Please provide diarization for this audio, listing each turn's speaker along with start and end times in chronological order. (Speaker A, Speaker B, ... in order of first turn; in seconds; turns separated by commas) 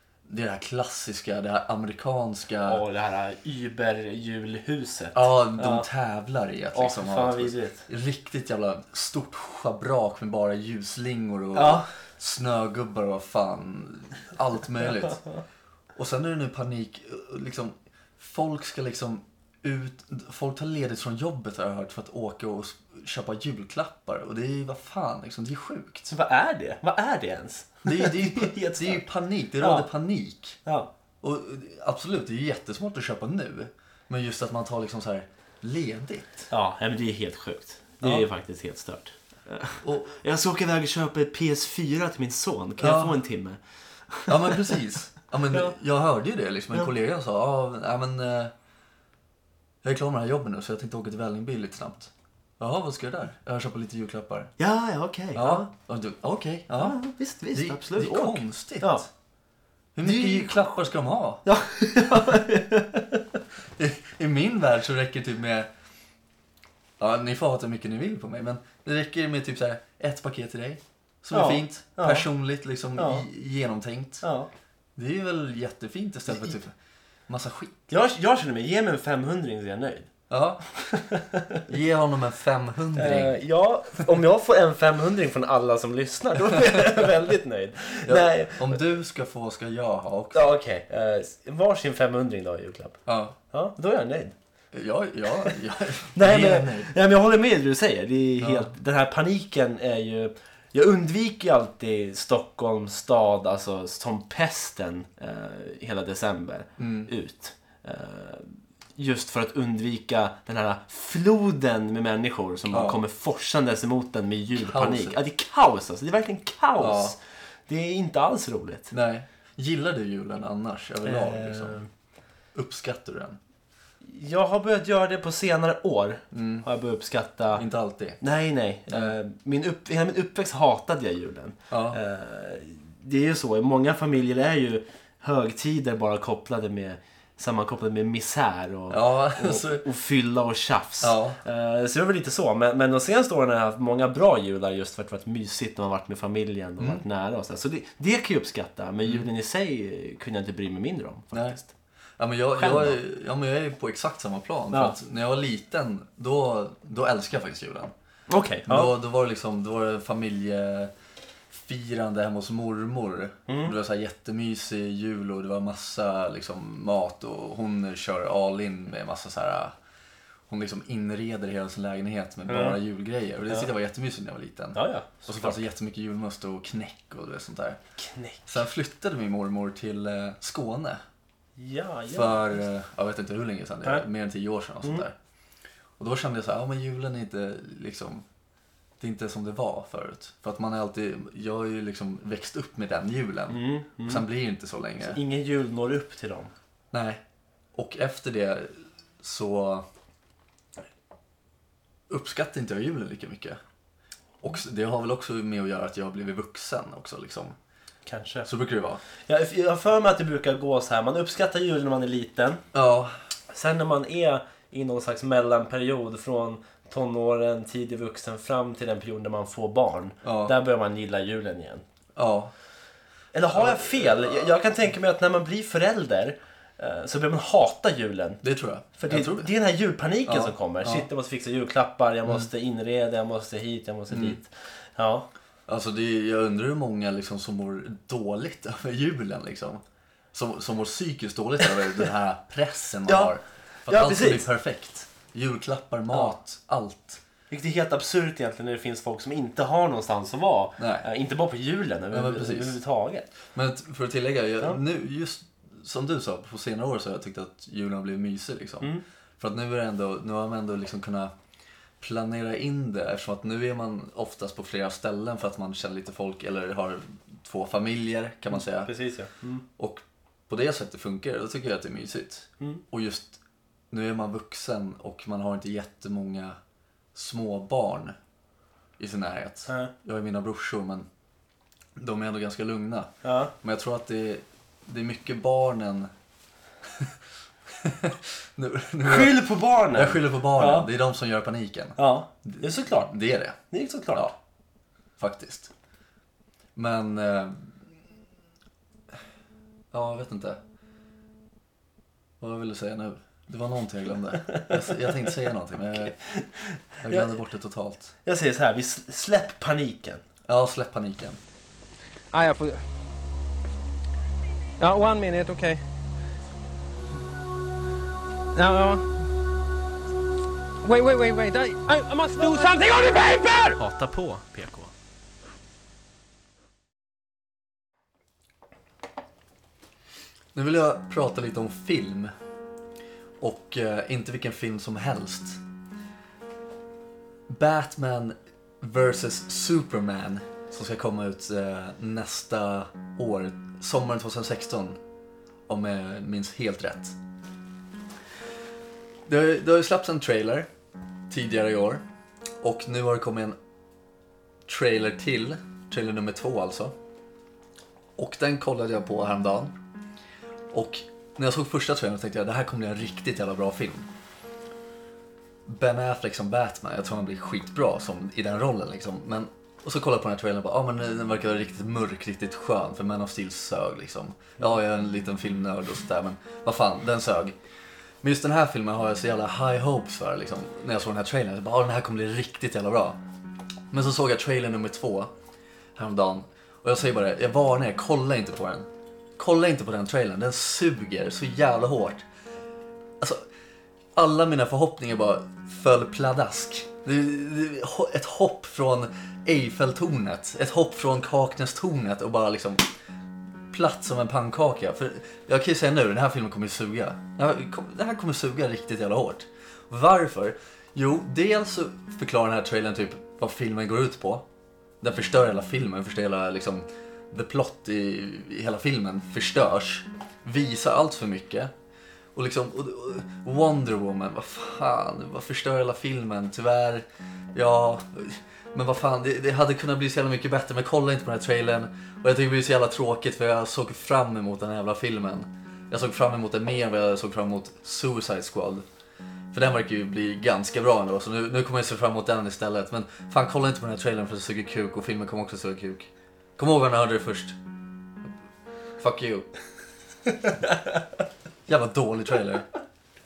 Speaker A: 0.2-2.8, Speaker B: 2.6-5.8, Speaker A: 5.1-15.2, Speaker B: 6.7-7.8, Speaker B: 11.5-11.8, Speaker A: 15.9-26.1, Speaker B: 26.1-29.0, Speaker A: 27.8-30.6, Speaker B: 29.6-29.9, Speaker B: 30.6-30.9, Speaker A: 31.2-36.5, Speaker B: 36.5-44.8, Speaker A: 38.0-38.3, Speaker A: 39.8-40.2, Speaker A: 42.8-43.2, Speaker A: 44.3-48.5, Speaker A: 49.8-54.5, Speaker B: 54.6-55.7, Speaker A: 55.3-57.0, Speaker B: 56.8-59.0, Speaker A: 57.5-59.1, Speaker A: 59.9-61.4, Speaker B: 60.0-60.6, Speaker B: 61.4-63.4, Speaker A: 63.8-65.7, Speaker A: 67.0-74.2, Speaker B: 71.3-72.3, Speaker B: 73.0-73.2, Speaker B: 74.2-74.5, Speaker A: 75.0-76.7, Speaker A: 77.3-77.8, Speaker B: 77.9-80.1, Speaker A: 80.3-80.6, Speaker B: 80.7-81.6, Speaker A: 81.7-83.4, Speaker B: 82.9-88.8, Speaker A: 86.5-87.0, Speaker A: 88.0-90.5, Speaker B: 90.3-94.3, Speaker A: 93.0-93.3, Speaker A: 94.7-96.9, Speaker B: 96.1-118.9, Speaker A: 98.4-98.7, Speaker A: 106.8-107.1, Speaker A: 112.7-113.0, Speaker A: 114.5-115.2, Speaker A: 116.8-117.1, Speaker A: 118.9-121.8, Speaker B: 121.0-121.9, Speaker A: 122.5-123.4, Speaker B: 124.0-127.6, Speaker A: 126.3-126.7, Speaker A: 127.5-128.2, Speaker B: 128.2-151.7, Speaker A: 128.9-129.1, Speaker A: 131.7-132.0, Speaker A: 138.9-139.8, Speaker A: 141.0-141.4, Speaker A: 151.3-151.6, Speaker A: 152.2-157.9, Speaker B: 152.6-153.0, Speaker B: 154.7-154.9, Speaker B: 158.3-158.9, Speaker A: 158.7-160.9, Speaker A: 161.5-169.7, Speaker B: 163.5-163.8, Speaker A: 170.5-177.8, Speaker B: 172.5-172.8, Speaker B: 174.7-175.6, Speaker B: 178.0-178.5, Speaker A: 178.5-181.0, Speaker B: 181.6-182.6, Speaker A: 182.1-185.1, Speaker A: 186.0-188.2, Speaker A: 189.0-195.2, Speaker B: 193.5-194.2, Speaker B: 195.0-196.5, Speaker A: 196.9-197.2, Speaker A: 197.7-199.8, Speaker A: 202.1-203.6, Speaker A: 204.4-207.6, Speaker B: 208.1-208.5, Speaker A: 208.4-209.0, Speaker B: 209.2-212.6, Speaker A: 212.7-213.1, Speaker B: 213.5-221.8, Speaker A: 220.2-220.5, Speaker A: 222.2-222.5, Speaker B: 223.3-228.4, Speaker A: 223.5-224.6, Speaker A: 228.4-229.5, Speaker B: 229.0-235.3, Speaker A: 230.2-231.1, Speaker A: 234.1-234.4, Speaker A: 235.7-239.8, Speaker A: 240.3-247.2, Speaker B: 243.1-243.3, Speaker B: 243.9-244.5, Speaker B: 246.1-246.4, Speaker B: 247.5-253.3, Speaker A: 250.8-251.0, Speaker A: 252.1-252.8, Speaker A: 253.5-261.3, Speaker A: 262.0-268.9, Speaker B: 268.5-269.6, Speaker A: 269.8-273.4, Speaker A: 273.9-276.6, Speaker A: 277.1-278.1, Speaker A: 279.0-281.1, Speaker A: 282.0-286.1, Speaker B: 283.2-283.5, Speaker A: 287.7-293.6, Speaker B: 289.0-290.9, Speaker B: 292.0-293.1, Speaker B: 293.7-294.3, Speaker A: 295.2-295.7, Speaker A: 296.8-297.8, Speaker A: 299.9-300.6, Speaker A: 302.4-306.2, Speaker B: 304.4-304.9, Speaker B: 306.1-307.4, Speaker A: 307.0-308.1, Speaker B: 308.2-310.2, Speaker A: 310.4-311.4, Speaker C: 312.3-312.8, Speaker C: 314.8-315.8, Speaker C: 318.5-319.2, Speaker C: 320.8-323.8, Speaker B: 323.8-324.9, Speaker A: 330.5-332.3, Speaker A: 333.4-335.6, Speaker A: 337.5-345.0, Speaker A: 345.7-347.1, Speaker A: 349.2-350.7, Speaker A: 351.3-352.0, Speaker A: 352.6-353.6, Speaker A: 354.7-356.9, Speaker A: 358.2-359.8, Speaker A: 360.7-364.1, Speaker A: 365.6-377.5, Speaker A: 378.2-383.2, Speaker A: 383.9-385.3, Speaker A: 385.9-392.2, Speaker A: 393.2-393.4, Speaker A: 394.1-402.9, Speaker A: 403.7-414.4, Speaker A: 415.0-421.7, Speaker A: 422.3-438.8, Speaker A: 439.5-447.6, Speaker A: 449.0-449.5, Speaker B: 450.4-450.9, Speaker A: 451.7-452.7